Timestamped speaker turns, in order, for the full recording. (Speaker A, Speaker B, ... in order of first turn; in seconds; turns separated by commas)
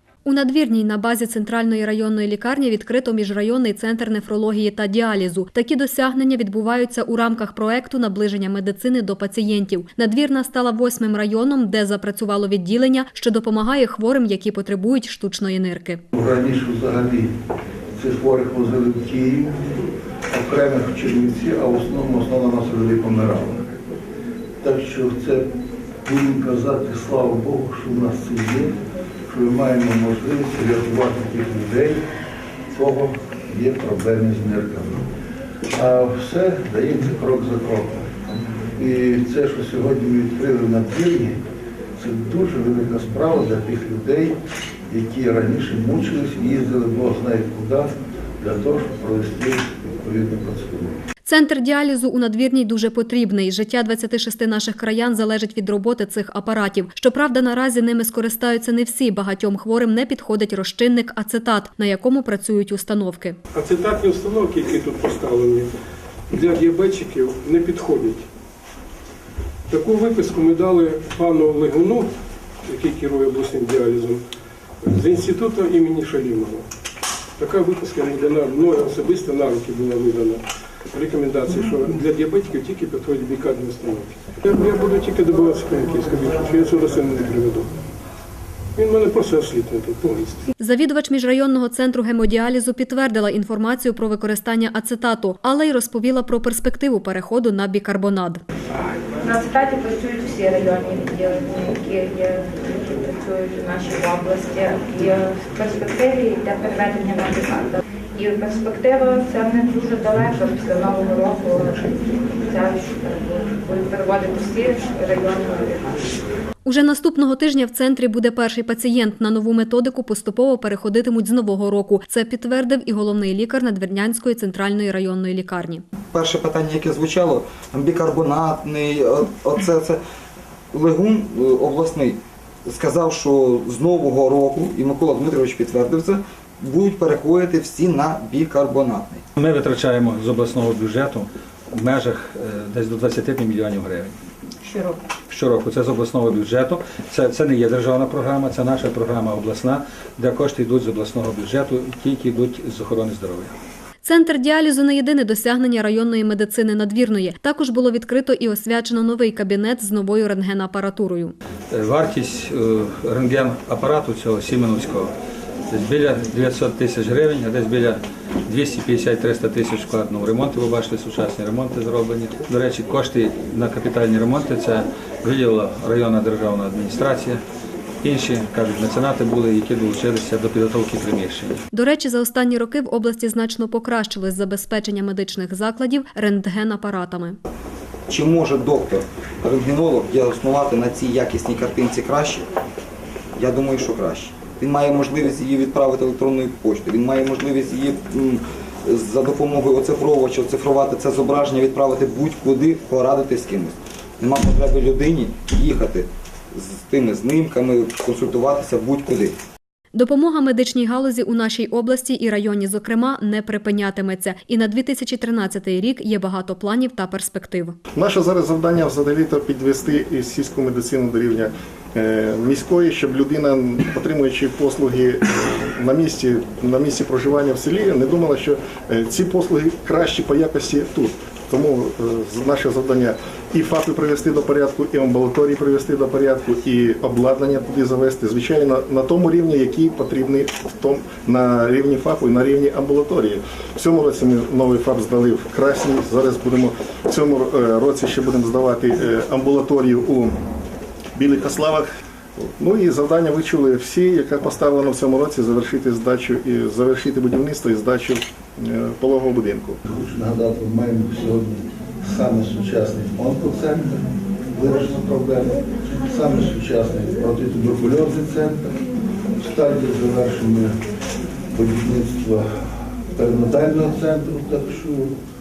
Speaker A: 0.2-16.0, Speaker B: 16.1-17.3, Speaker B: 18.0-23.7, Speaker B: 24.6-25.5, Speaker B: 26.0-28.8, Speaker B: 29.3-32.0, Speaker B: 32.7-35.0, Speaker B: 35.7-38.1, Speaker B: 38.8-41.4, Speaker B: 42.0-44.4, Speaker B: 44.9-51.0, Speaker A: 51.2-63.4, Speaker C: 63.5-65.7, Speaker C: 66.3-68.2, Speaker C: 69.7-72.1, Speaker C: 72.7-74.2, Speaker C: 74.8-76.7, Speaker C: 77.4-80.4, Speaker C: 80.9-87.7, Speaker C: 88.8-90.4, Speaker A: 90.6-98.4, Speaker D: 99.2-116.2, Speaker A: 116.7-125.8, Speaker E: 126.1-130.0, Speaker E: 130.7-139.2, Speaker F: 139.4-144.2, Speaker F: 145.3-153.5, Speaker A: 154.0-161.3, Speaker F: 161.7-165.1, Speaker F: 165.7-177.4, Speaker F: 178.0-181.6, Speaker A: 181.7-187.4, Speaker E: 188.1-192.5, Speaker E: 193.4-209.3, Speaker A: 209.9-217.8, Speaker G: 218.0-250.4, Speaker G: 251.2-251.9, Speaker G: 252.4-259.8, Speaker B: 259.9-268.8, Speaker B: 269.4-270.7, Speaker B: 271.5-272.4, Speaker B: 273.1-275.1